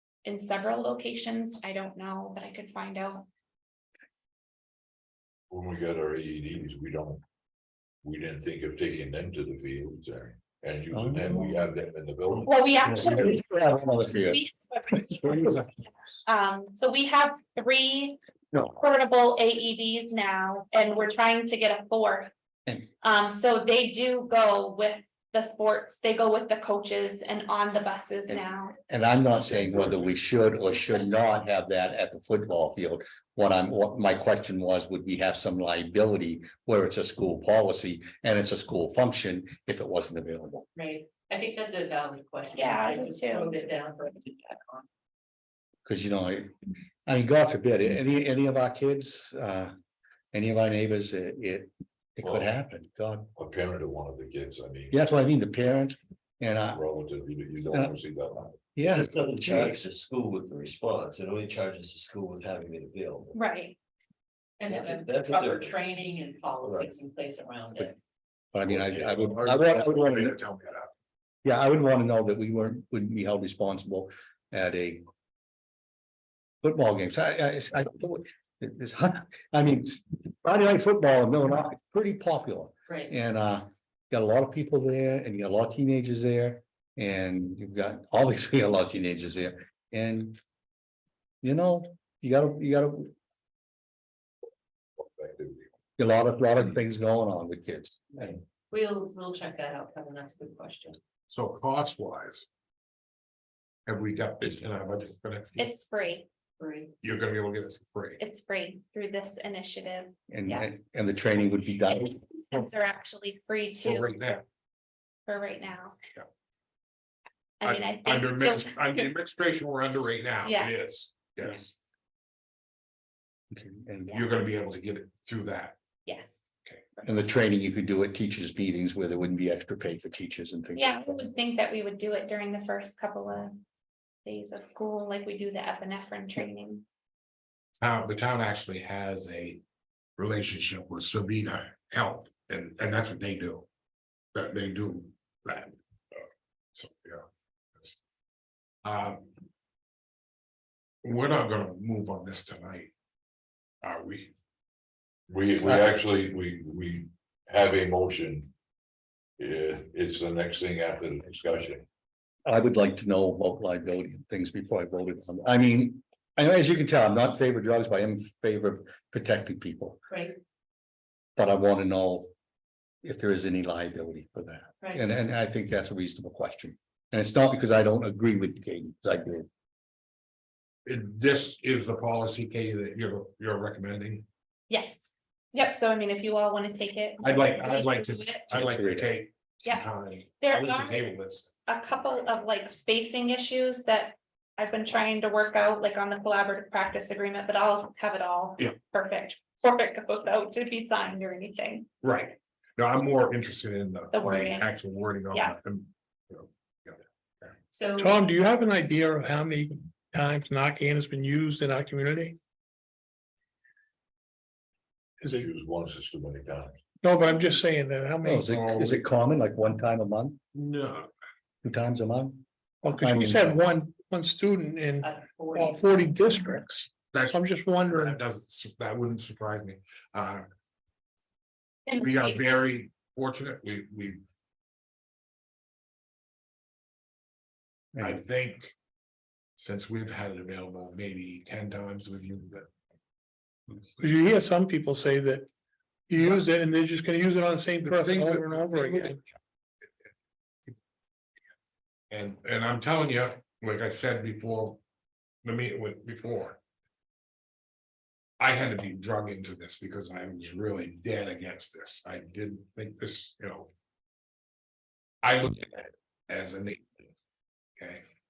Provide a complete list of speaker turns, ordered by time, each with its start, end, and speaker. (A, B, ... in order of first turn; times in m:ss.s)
0:00.2-0:03.3 A
0:05.5-0:07.2 B
0:08.0-0:12.6 B
0:10.9-0:11.7 C
0:12.5-0:13.4 A
0:12.8-0:14.4 C
0:14.1-0:15.7 A
0:15.2-0:15.5 C
0:16.3-0:18.2 A
0:18.8-0:22.3 A
0:23.0-0:28.8 A
0:28.3-0:40.6 C
0:40.8-0:44.9 D
0:42.5-0:43.6 A
0:45.8-0:46.5 C
0:47.1-0:49.7 C
0:50.3-0:53.3 C
0:53.4-0:55.0 B
0:54.9-0:56.8 C
0:56.7-0:58.9 B
0:58.8-0:59.8 C
0:58.9-1:03.3 E
1:03.3-1:03.8 A
1:04.6-1:08.0 D
1:04.7-1:05.8 E
1:06.6-1:06.9 E
1:08.5-1:10.4 C
1:08.7-1:10.9 F
1:11.4-1:15.0 C
1:16.6-1:30.4 C
1:31.4-1:33.1 C
1:35.0-1:35.7 B
1:36.0-1:38.4 C
1:38.7-1:41.0 D
1:41.3-1:42.5 F
1:43.9-1:45.6 F
1:45.6-1:46.3 A
1:46.6-1:46.9 D
1:47.0-1:48.2 F
1:48.2-1:50.7 A
1:50.3-1:52.2 C
1:52.4-1:54.4 A
1:53.8-1:54.4 F
1:55.3-1:56.0 A
1:57.6-1:59.1 A
1:57.6-2:01.8 F
2:00.4-2:00.8 A
2:03.5-2:04.2 C
2:04.1-2:05.8 F
2:06.1-2:07.1 A
2:07.0-2:11.3 C
2:10.8-2:13.6 A
2:14.2-2:16.8 A
2:17.8-2:19.6 F
2:20.2-2:23.7 F
2:24.3-2:27.3 F
2:28.8-2:29.3 F
2:31.0-2:32.9 F
2:33.8-2:34.3 F
2:35.3-2:38.5 B
2:39.4-2:41.8 B
2:42.5-2:50.0 C
2:50.1-2:50.4 D
2:51.4-2:52.3 C
2:53.0-2:59.5 C
3:00.9-3:04.2 F
3:04.7-3:08.5 A
3:07.2-3:11.6 F
3:08.5-3:09.2 C
3:10.4-3:11.0 A
3:11.7-3:21.9 A
3:22.0-3:27.5 F
3:24.1-3:24.7 A
3:27.7-3:28.2 D
3:28.0-3:32.4 G
3:35.2-3:35.5 G
3:35.3-3:36.8 B
3:37.0-3:38.6 G
3:38.2-3:40.4 C
3:38.5-3:39.0 F
3:40.5-3:41.1 F
3:41.6-3:42.4 C
3:42.8-3:48.2 G
3:43.0-3:43.6 C
3:45.0-3:45.9 D
3:47.1-3:50.5 F
3:51.9-3:52.4 A
3:52.0-3:54.2 F
3:58.0-3:58.2 C
3:58.0-3:58.7 F
3:59.6-4:02.7 F
4:03.7-4:04.0 C
4:04.0-4:05.5 G
4:06.1-4:09.2 G
4:07.8-4:09.2 F
4:12.1-4:14.8 F
4:15.4-4:16.6 F
4:18.4-4:23.7 F
4:25.2-4:27.0 F
4:27.8-4:28.0 F